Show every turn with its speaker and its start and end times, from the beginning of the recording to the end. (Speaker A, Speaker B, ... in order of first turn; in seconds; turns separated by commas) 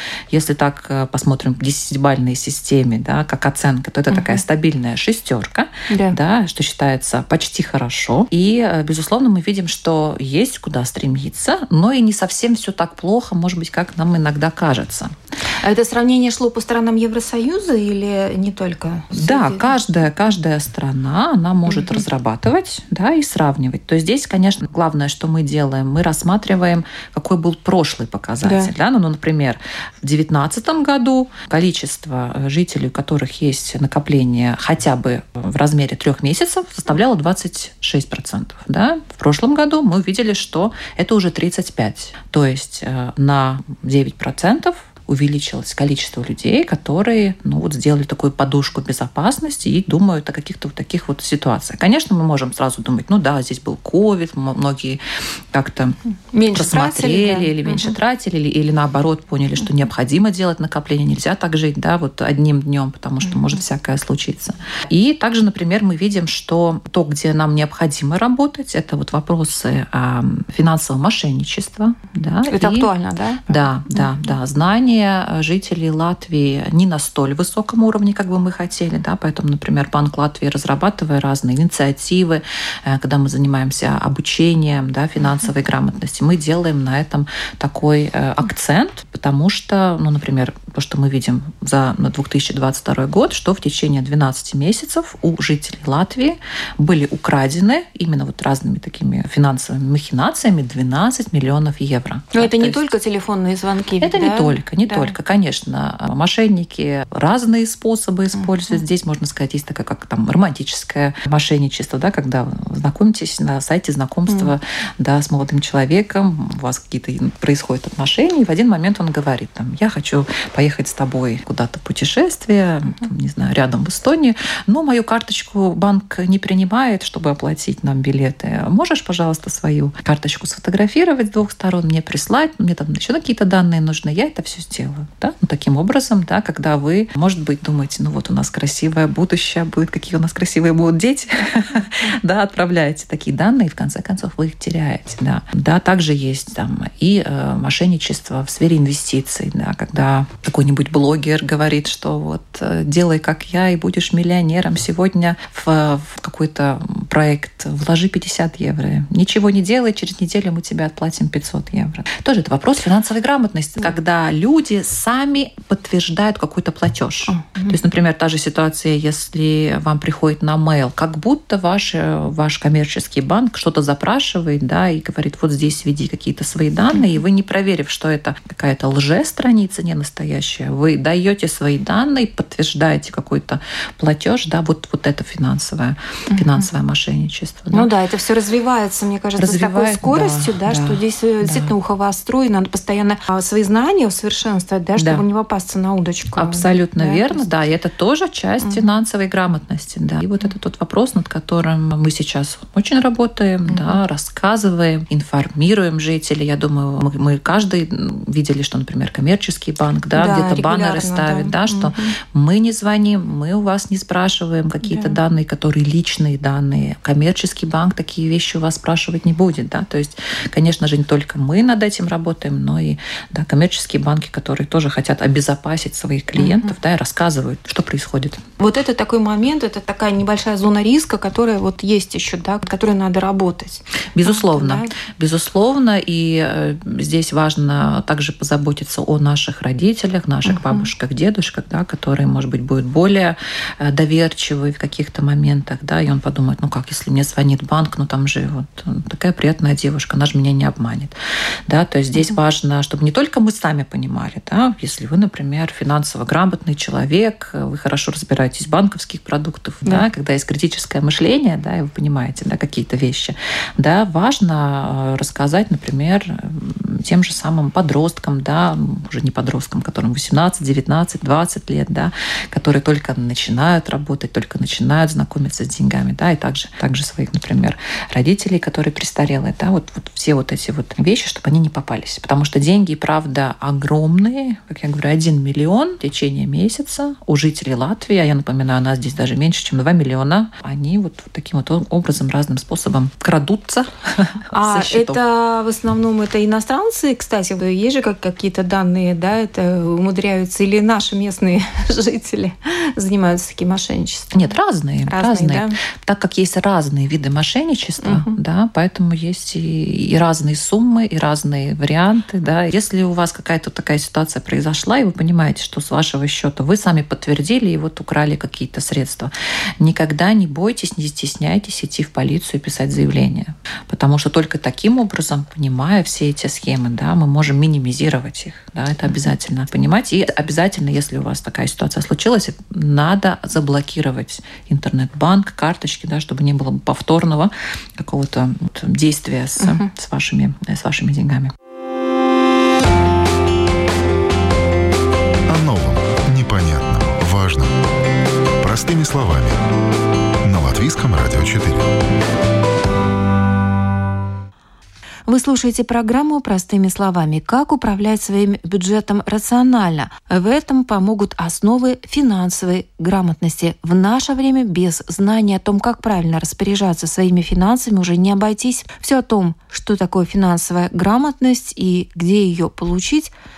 Speaker A: 0.3-15.1, Speaker B: 4.1-4.4, Speaker B: 5.9-6.2, Speaker B: 15.6-19.7, Speaker A: 19.1-55.0, Speaker B: 21.7-22.0, Speaker B: 28.4-28.7, Speaker A: 55.5-56.0, Speaker B: 56.3-57.9, Speaker A: 56.5-72.9, Speaker B: 72.5-73.5, Speaker A: 73.5-102.9, Speaker B: 102.3-105.1, Speaker A: 104.0-187.9, Speaker B: 167.3-167.8, Speaker B: 186.3-186.7, Speaker B: 187.7-197.5, Speaker A: 189.4-191.7, Speaker A: 195.0-195.2, Speaker A: 196.4-228.4, Speaker B: 203.7-204.0, Speaker B: 210.1-212.2, Speaker B: 214.9-215.2, Speaker B: 226.4-226.7, Speaker B: 228.6-234.9, Speaker A: 234.2-251.2, Speaker B: 240.5-240.9, Speaker A: 251.7-295.2, Speaker B: 294.5-304.5, Speaker A: 304.3-341.5, Speaker B: 305.1-305.8, Speaker B: 308.0-308.4, Speaker B: 339.6-339.9, Speaker C: 345.5-347.7, Speaker C: 348.6-349.6, Speaker C: 350.4-351.9, Speaker B: 355.3-373.3